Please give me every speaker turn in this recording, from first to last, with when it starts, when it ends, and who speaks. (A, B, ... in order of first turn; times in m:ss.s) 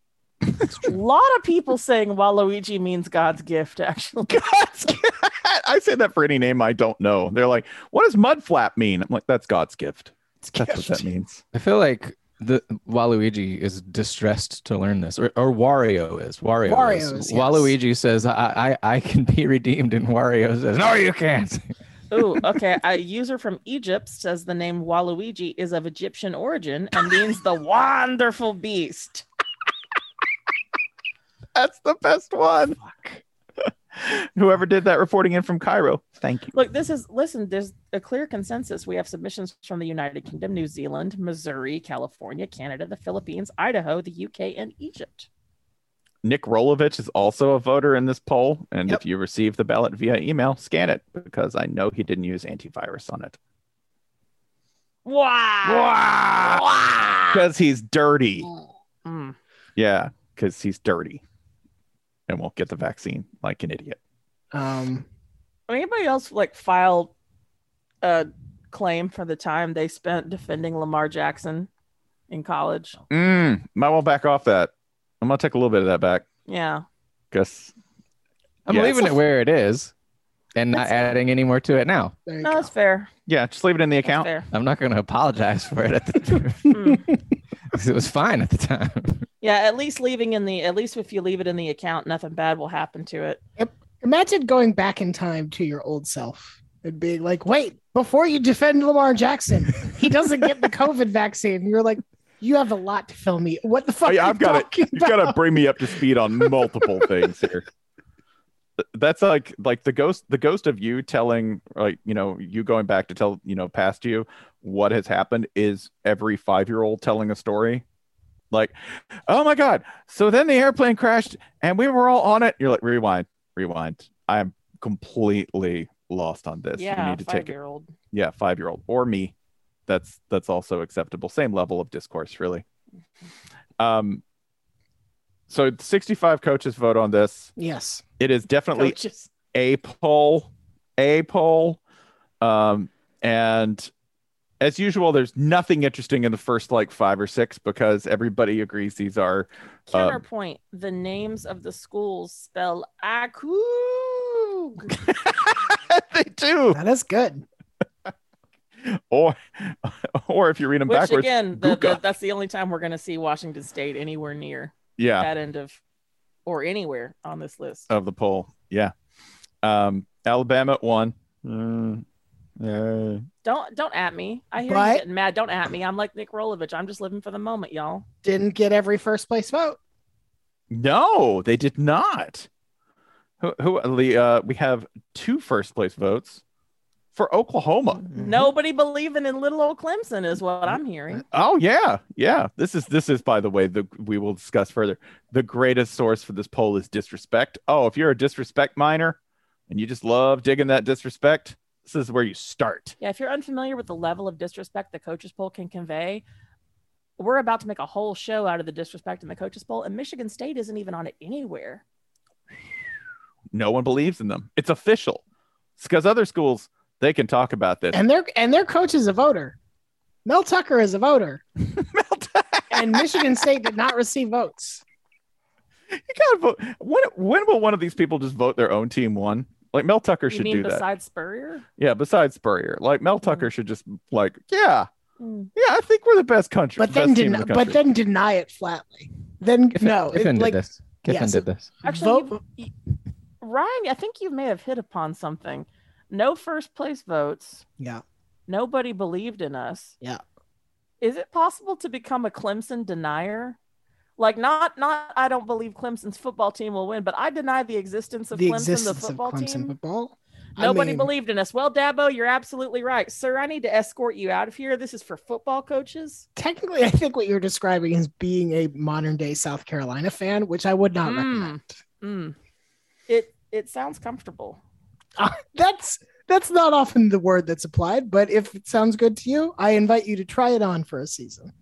0:00.8-0:04.4 A
0:04.3-0:11.4 B
0:10.5-0:11.1 C
0:11.5-0:21.7 D
0:16.7-0:17.7 C
0:22.1-0:29.2 A
0:31.6-0:32.8 B
0:34.0-0:36.5 B
0:36.5-0:45.3 A
0:46.2-0:53.4 B
0:55.0-0:57.4 A
0:55.6-0:56.7 B
0:57.3-0:58.5 B
0:59.0-0:59.4 A
0:59.8-1:01.2 B
1:02.3-1:04.0 B
1:04.5-1:05.1 C
1:05.7-1:07.1 A
1:08.0-1:11.7 A
1:12.3-1:13.0 A
1:13.1-1:16.2 B
1:16.5-1:16.8 A
1:17.3-1:17.7 B
1:18.7-1:19.9 D
1:18.7-1:19.2 B
1:20.6-1:22.2 D
1:22.3-1:22.7 C
1:22.4-1:23.1 A
1:23.3-1:24.3 B
1:24.0-1:24.5 A
1:24.5-1:26.8 D
1:26.7-1:27.0 A
1:27.7-1:29.3 D
1:29.4-1:33.4 A
1:33.6-1:45.4 C
1:44.0-1:47.6 B
1:48.9-1:57.8 B
1:59.3-2:07.5 B
2:06.8-2:07.9 A
2:08.1-2:09.3 B
2:09.9-2:12.6 B
2:13.8-2:14.2 B
2:15.5-2:17.5 B
2:17.6-2:18.0 C
2:18.2-2:19.0 B
2:18.8-2:19.3 A
2:19.5-2:21.8 B
2:22.4-2:23.9 B
2:24.6-2:30.2 B
2:29.9-2:34.8 A
2:34.9-2:36.8 B
2:36.7-2:37.4 C
2:38.9-2:42.0 B
2:40.9-2:45.8 A
2:45.0-2:45.3 B
2:46.5-2:47.9 A
2:47.9-2:48.9 B
2:49.6-2:52.0 B
2:52.6-2:53.2 B
2:53.4-2:58.0 A
2:54.6-2:55.0 C
2:58.2-2:59.8 C
3:00.7-3:02.5 B
3:03.4-3:06.4 B
3:07.1-3:08.1 B
3:08.1-3:08.5 C
3:08.2-3:11.2 A
3:11.3-3:19.2 B
3:19.7-3:23.0 B
3:23.0-3:26.2 A
3:27.2-3:31.8 A
3:33.5-3:35.2 B
3:35.8-3:38.0 B
3:37.9-3:39.6 C
3:40.2-3:41.4 C
3:41.8-3:43.1 B
3:42.7-3:44.8 C
3:46.1-3:50.9 B
3:50.3-3:51.6 A
3:51.8-3:54.9 B
3:55.2-3:55.5 A
3:55.6-3:57.8 B
3:56.8-4:02.4 C
3:59.8-4:01.7 D
4:01.8-4:02.7 A
4:03.4-4:07.6 A
4:08.5-4:10.0 A
4:11.0-4:13.6 A
4:14.2-4:19.8 A
4:18.3-4:21.1 C
4:20.6-4:26.3 A
4:26.4-4:31.8 C
4:31.0-4:32.4 A
4:33.1-4:34.6 A
4:35.2-4:41.5 C